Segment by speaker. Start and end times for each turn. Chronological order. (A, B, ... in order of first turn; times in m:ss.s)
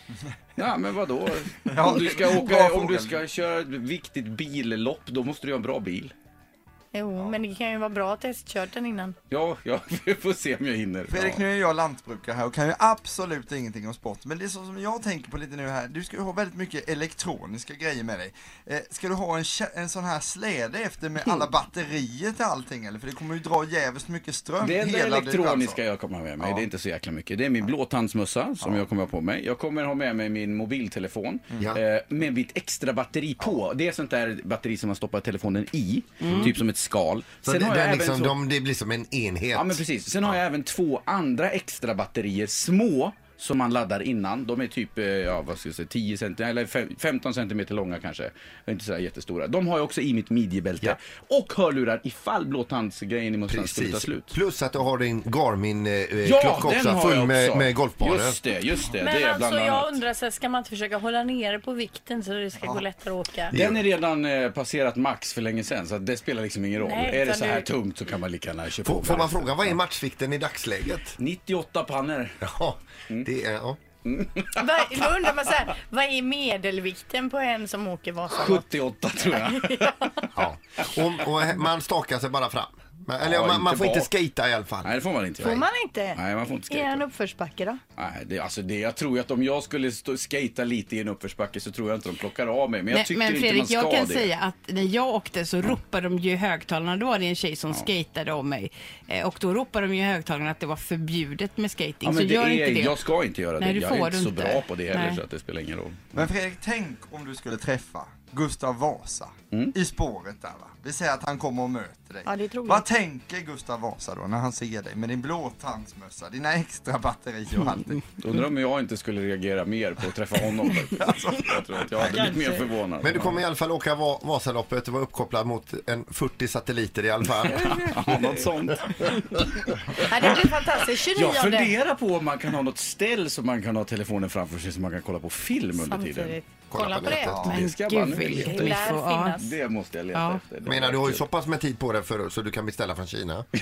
0:00.6-0:06.1 A
0:01.7-0:03.2 B
0:06.9-0:09.1 C
0:09.3-0:11.4 A
0:11.1-0:25.8 B
0:24.6-0:38.4 A
0:26.4-0:26.7 B
0:36.2-0:36.5 D
0:37.4-0:40.3 E
0:39.5-0:54.3 A
0:53.5-0:58.4 E
0:56.2-1:00.0 A
0:59.0-1:03.5 C
1:02.6-1:02.9 B
1:03.5-1:03.8 E
1:03.5-1:09.8 A
1:06.8-1:07.7 C
1:08.8-1:11.2 E
1:11.2-1:12.4 A
1:12.4-1:13.8 E
1:14.0-1:15.0 A
1:14.5-1:18.6 C
1:18.3-1:21.5 A
1:19.3-1:20.0 C
1:20.3-1:24.9 E
1:23.2-1:24.1 A
1:24.8-1:27.0 A
1:25.4-1:27.8 C
1:28.0-1:34.3 A
1:32.9-1:43.0 D
1:42.0-1:46.3 A
1:43.6-1:45.2 D
1:46.1-1:58.0 B
1:52.2-1:52.8 C
1:58.1-2:03.4 A
2:01.0-2:02.4 B
2:02.1-2:02.5 C
2:03.0-2:08.4 E
2:07.5-2:16.4 A
2:10.0-2:11.8 C
2:15.7-2:17.4 C
2:16.7-2:17.5 E
2:17.1-2:21.2 A
2:17.4-2:17.6 B
2:17.5-2:19.4 D
2:18.4-2:19.5 C
2:20.1-2:20.4 D
2:20.6-2:23.5 E